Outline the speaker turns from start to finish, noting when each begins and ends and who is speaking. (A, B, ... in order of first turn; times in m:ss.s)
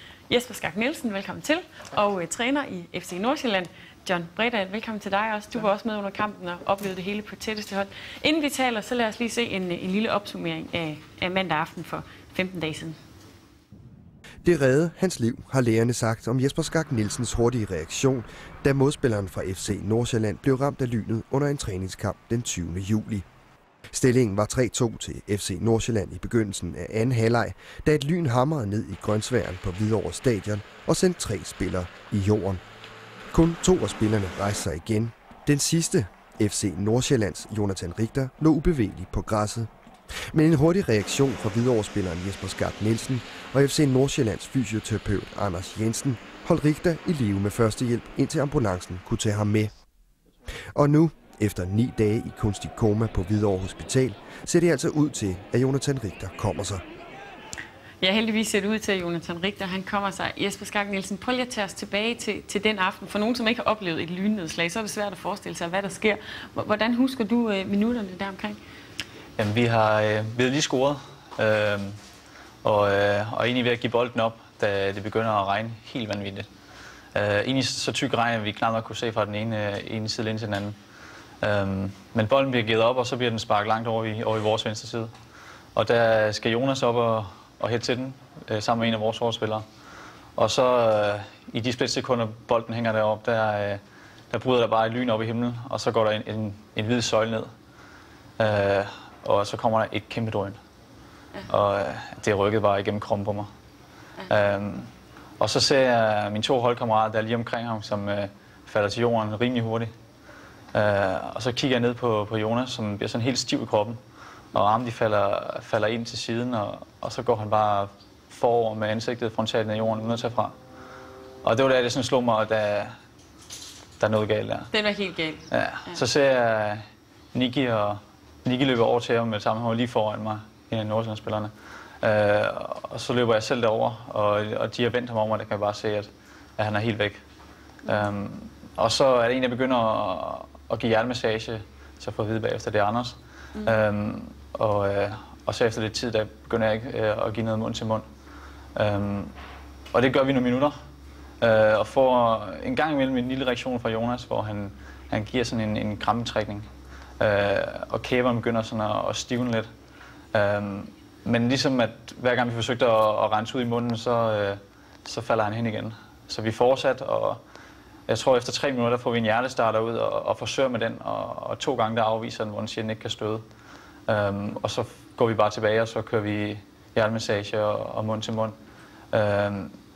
0:00.3-0:13.0 A
0:14.4-0:23.3 B
0:23.9-0:32.6 B
0:33.3-0:39.7 B
0:40.3-0:49.7 B
0:50.8-0:56.8 B
0:58.0-1:08.6 A
1:09.4-1:12.0 C
1:12.6-1:16.5 C
1:17.1-1:20.8 C
1:21.4-1:25.1 C
1:25.8-1:29.6 C
1:30.4-1:37.5 C
1:38.4-1:40.6 C
1:41.5-1:43.5 C
1:44.3-1:49.9 C
1:50.7-1:54.0 C
1:54.5-2:00.6 C
2:01.4-2:02.9 C
2:04.0-2:04.7 C
2:04.7-2:06.0 A
2:05.5-2:06.8 C
2:07.3-2:17.2 C
2:17.9-2:28.1 C
2:23.6-2:23.8 A
2:28.8-2:29.3 C
2:29.9-2:30.8 C
2:31.4-2:36.7 C
2:37.2-2:39.7 C
2:40.3-2:47.4 C
2:48.1-2:53.4 C
2:54.1-2:58.6 C
2:59.1-2:59.7 C